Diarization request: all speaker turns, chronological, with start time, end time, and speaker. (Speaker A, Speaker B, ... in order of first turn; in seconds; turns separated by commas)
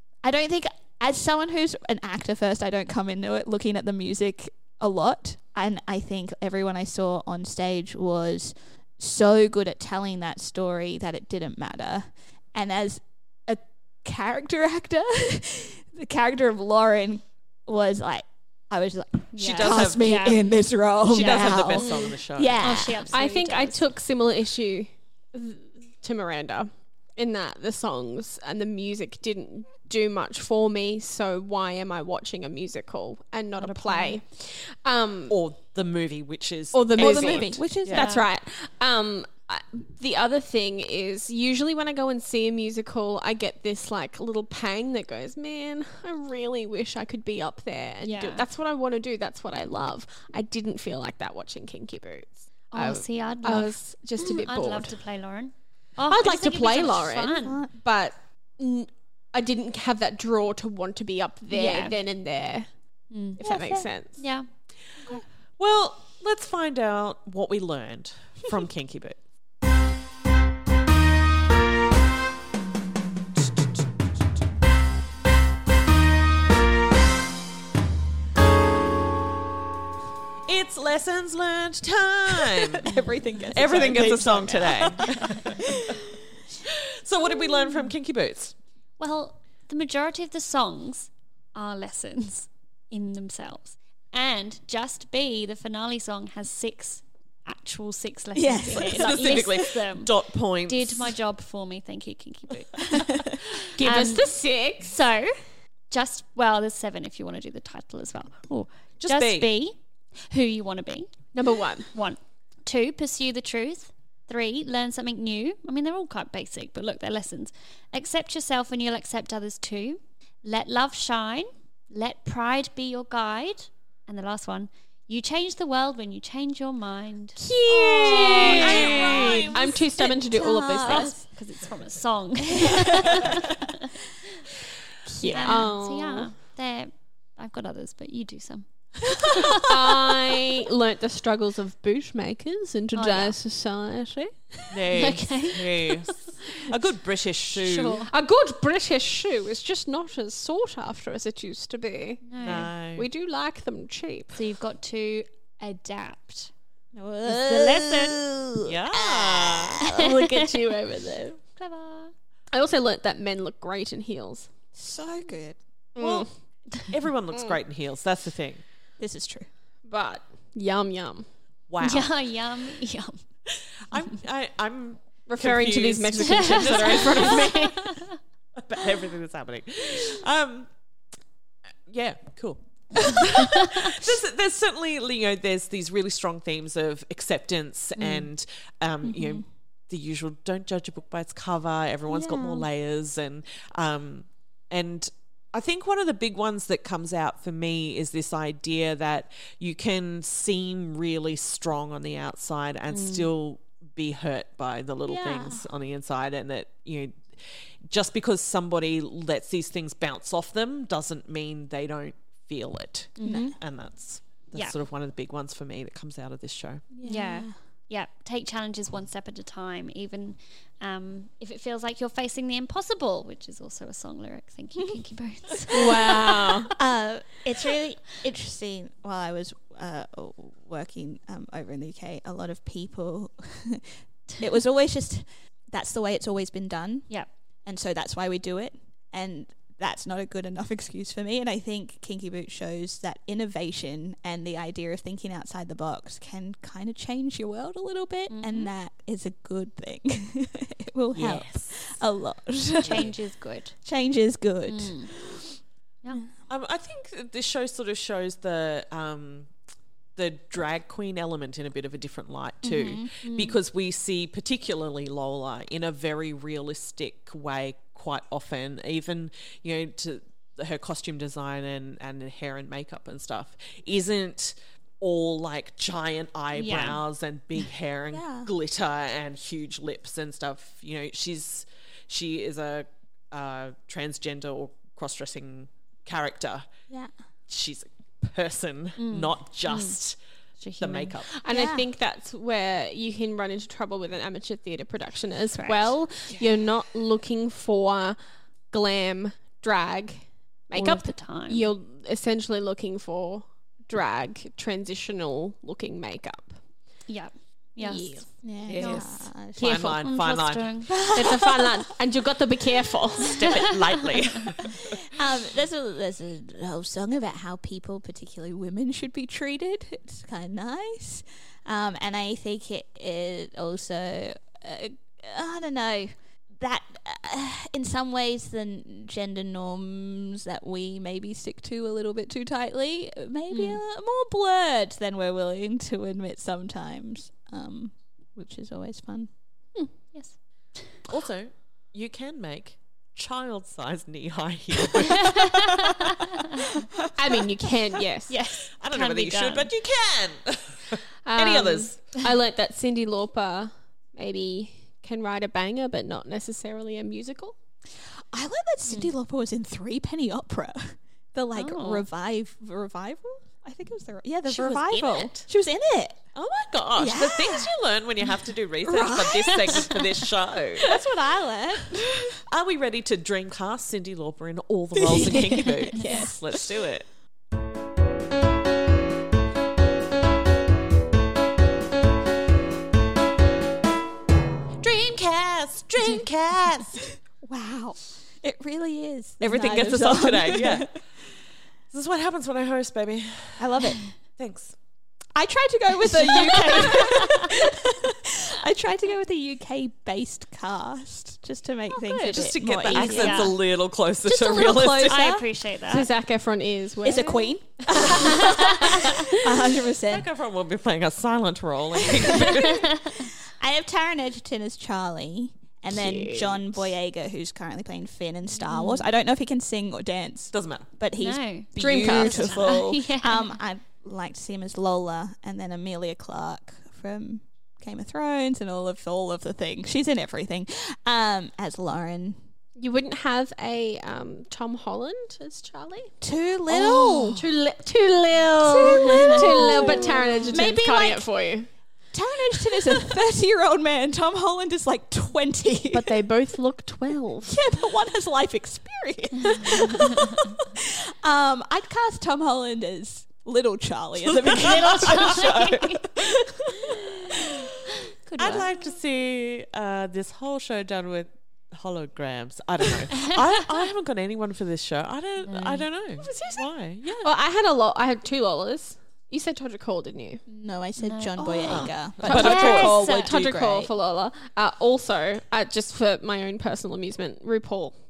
Speaker A: 0.2-23.1, Speaker B: 19.3-20.4, Speaker C: 19.4-20.1, Speaker C: 21.1-22.6, Speaker D: 21.8-22.1, Speaker B: 22.6-23.9, Speaker D: 23.1-35.4, Speaker B: 33.6-34.2, Speaker C: 35.3-38.1, Speaker D: 36.7-55.0, Speaker A: 37.0-38.1, Speaker B: 38.0-38.3, Speaker B: 48.0-48.5, Speaker B: 52.7-57.6, Speaker D: 56.1-62.7, Speaker A: 57.4-57.7, Speaker B: 61.5-62.0, Speaker B: 63.1-63.4, Speaker D: 63.4-64.2, Speaker A: 63.4-63.9, Speaker B: 64.2-64.5, Speaker C: 65.6-69.2, Speaker C: 80.5-82.9, Speaker A: 82.5-86.0, Speaker C: 83.5-85.6, Speaker C: 86.7-88.5, Speaker B: 89.0-100.1, Speaker A: 98.3-99.7, Speaker C: 98.8-101.2, Speaker B: 100.7-105.3, Speaker A: 102.9-103.3, Speaker D: 103.8-105.0, Speaker B: 105.9-109.8, Speaker C: 109.0-109.5, Speaker B: 110.3-111.3, Speaker D: 111.3-111.9, Speaker B: 111.9-127.4, Speaker D: 127.4-129.0, Speaker A: 127.7-131.2, Speaker C: 127.7-129.5, Speaker B: 128.3-129.7, Speaker D: 129.5-131.2, Speaker B: 130.4-133.7, Speaker A: 132.6-133.4, Speaker D: 135.1-136.3, Speaker A: 135.2-135.7, Speaker B: 135.2-139.7, Speaker D: 139.6-145.1, Speaker B: 142.9-143.4, Speaker C: 144.7-148.0, Speaker B: 144.9-146.0, Speaker B: 147.6-148.1, Speaker D: 148.1-154.4, Speaker B: 152.2-152.7, Speaker C: 152.4-153.1, Speaker B: 154.3-156.5, Speaker A: 156.9-160.0, Speaker B: 157.3-158.2, Speaker C: 158.7-159.8, Speaker D: 159.9-161.4, Speaker B: 161.6-162.1, Speaker D: 162.5-164.5, Speaker A: 164.8-165.6, Speaker D: 165.9-166.3, Speaker C: 166.0-166.3, Speaker C: 166.8-168.6, Speaker A: 169.0-169.5, Speaker D: 169.9-171.3, Speaker C: 171.7-172.1, Speaker B: 171.8-173.2, Speaker C: 173.9-177.5, Speaker D: 175.3-178.0, Speaker B: 176.3-178.1, Speaker C: 178.6-180.7, Speaker C: 181.9-216.9, Speaker B: 188.0-188.3, Speaker A: 189.0-189.4, Speaker A: 192.1-192.7, Speaker B: 202.9-203.3, Speaker A: 205.1-205.7, Speaker B: 213.2-213.5, Speaker A: 213.2-213.6, Speaker A: 216.9-217.5, Speaker B: 217.1-226.6, Speaker D: 225.7-226.7, Speaker A: 226.8-237.1, Speaker A: 237.7-253.2, Speaker B: 248.3-248.7, Speaker C: 251.1-251.8, Speaker B: 252.8-253.8, Speaker C: 252.8-253.1, Speaker A: 253.8-255.6, Speaker B: 254.7-255.1, Speaker C: 256.5-259.5, Speaker C: 260.2-286.7, Speaker A: 262.6-263.1, Speaker B: 263.2-263.6, Speaker B: 276.5-277.0, Speaker A: 278.1-278.5, Speaker C: 287.5-290.2, Speaker B: 289.0-290.0, Speaker B: 290.6-291.1, Speaker C: 290.8-291.3, Speaker D: 291.4-298.2, Speaker A: 291.5-291.9, Speaker B: 295.6-295.9, Speaker D: 298.7-306.6, Speaker B: 300.7-301.7, Speaker B: 307.1-309.1, Speaker D: 307.8-310.0, Speaker A: 308.4-309.6, Speaker C: 309.6-310.9, Speaker B: 309.7-310.9, Speaker A: 310.9-311.7, Speaker D: 311.1-313.4, Speaker C: 313.2-314.8, Speaker A: 314.8-339.3, Speaker B: 333.5-333.8, Speaker B: 340.1-341.0, Speaker C: 341.1-346.0, Speaker D: 347.2-348.3, Speaker B: 348.3-349.7, Speaker C: 348.8-352.1, Speaker D: 351.3-357.6, Speaker A: 358.2-366.2, Speaker B: 361.6-362.1, Speaker C: 364.5-365.5, Speaker C: 366.4-370.9, Speaker A: 367.0-367.7, Speaker A: 368.8-370.1, Speaker A: 370.8-372.4, Speaker C: 372.5-377.1, Speaker A: 375.0-376.7, Speaker C: 384.8-387.1, Speaker A: 387.4-390.9, Speaker C: 389.4-391.0, Speaker C: 391.9-393.8, Speaker A: 393.6-394.0, Speaker C: 394.4-394.8, Speaker A: 395.4-403.6, Speaker B: 396.4-397.5, Speaker C: 402.1-405.3, Speaker B: 402.9-403.6, Speaker A: 404.2-405.5, Speaker B: 405.0-406.1, Speaker D: 405.9-409.3, Speaker A: 407.0-410.3, Speaker B: 408.5-409.1, Speaker C: 410.1-412.9, Speaker A: 412.1-432.4, Speaker B: 412.7-413.1, Speaker D: 415.9-416.7, Speaker B: 418.7-419.1, Speaker C: 420.5-420.9, Speaker B: 421.2-423.5, Speaker D: 421.8-422.7, Speaker D: 432.8-436.1, Speaker A: 436.2-437.5, Speaker D: 437.4-441.7, Speaker A: 438.6-441.3, Speaker A: 442.1-446.3, Speaker D: 445.9-447.6, Speaker A: 447.5-457.7, Speaker C: 454.3-455.8, Speaker B: 455.0-456.0, Speaker B: 458.3-458.7, Speaker C: 458.4-467.3, Speaker B: 465.4-465.9, Speaker D: 466.2-466.6, Speaker D: 467.2-470.4, Speaker A: 470.5-473.9, Speaker B: 471.0-473.3, Speaker C: 471.7-473.0, Speaker D: 472.2-478.0